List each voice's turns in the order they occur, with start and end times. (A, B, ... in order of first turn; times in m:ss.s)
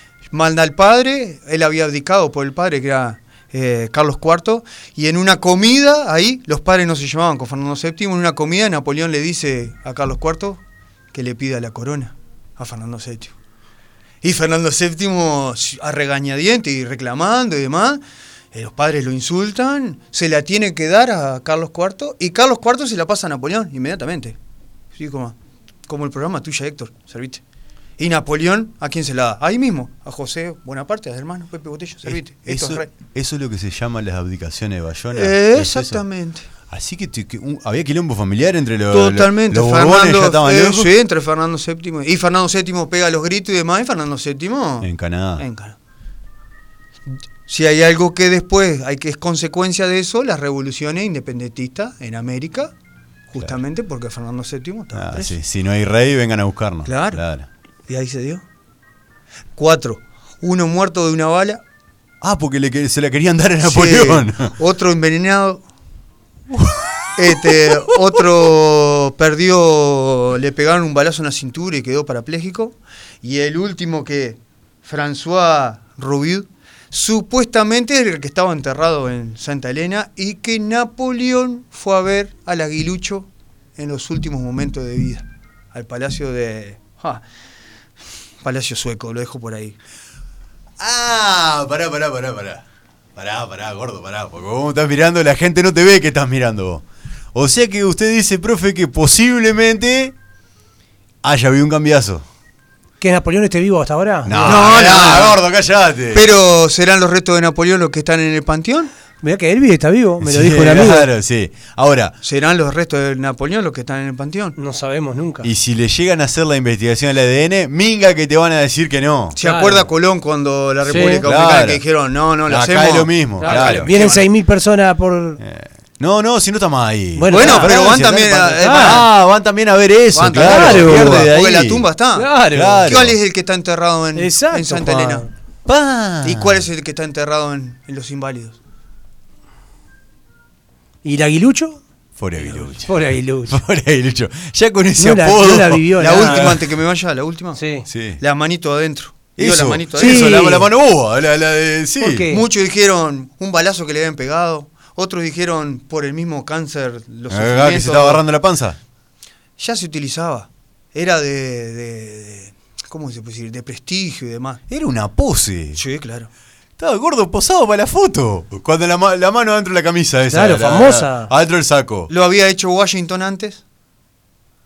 0:00.3-0:10.6 A
0:11.1-0:13.3 A
0:14.2-0:18.0 A
0:18.5-0:24.4 A
0:25.0-0:25.3 A
0:25.9-0:27.4 A
0:28.0-0:32.9 A
0:32.0-0:36.0 B
0:35.1-0:36.5 A
0:36.7-0:40.9 B
0:38.9-0:45.8 A
0:44.8-0:45.4 B
0:47.5-0:52.7 A
0:53.3-0:55.4 A
0:54.9-0:57.5 B
0:56.9-0:57.2 A
0:57.9-0:58.4 A
0:59.6-1:01.6 A
1:02.2-1:04.5 B
1:03.6-1:05.6 A
1:06.5-1:08.2 B
1:07.2-1:27.2 A
1:28.4-1:29.8 A
1:30.8-1:32.6 B
1:33.2-1:40.2 B
1:41.2-1:42.2 B
1:43.0-1:44.7 C
1:44.3-1:46.3 B
1:44.4-1:45.4 A
1:46.1-1:48.9 A
1:49.2-1:51.1 C
1:50.2-1:52.1 B
1:52.2-1:54.6 A
1:54.6-1:55.5 C
1:55.4-1:59.4 B
1:59.4-2:04.3 A
1:59.4-1:59.9 C
2:00.9-2:01.2 C
2:00.9-2:01.8 B
2:02.5-2:03.9 B
2:03.4-2:05.4 C
2:05.4-2:11.9 B
2:07.2-2:07.8 C
2:07.3-2:09.1 A
2:08.6-2:09.0 C
2:10.1-2:12.3 A
2:10.4-2:11.3 C
2:12.2-2:12.9 C
2:12.5-2:13.2 B
2:12.8-2:15.2 A
2:14.2-2:15.3 C
2:15.7-2:16.7 B
2:16.2-2:18.6 A
2:21.0-2:21.8 C
2:22.2-2:26.7 B
2:22.4-2:23.6 C
2:25.0-2:26.6 C
2:26.0-2:27.6 A
2:27.6-2:27.9 C
2:27.9-2:28.2 B
2:28.2-2:30.5 A
2:29.4-2:32.3 B
2:30.0-2:30.7 C
2:32.0-2:32.4 C
2:32.3-2:38.2 A
2:37.3-2:38.8 B
2:39.6-2:44.6 A
2:44.7-2:45.8 B
2:45.8-2:46.3 A
2:46.8-2:52.1 B
2:50.3-2:51.3 C
2:52.1-2:53.6 A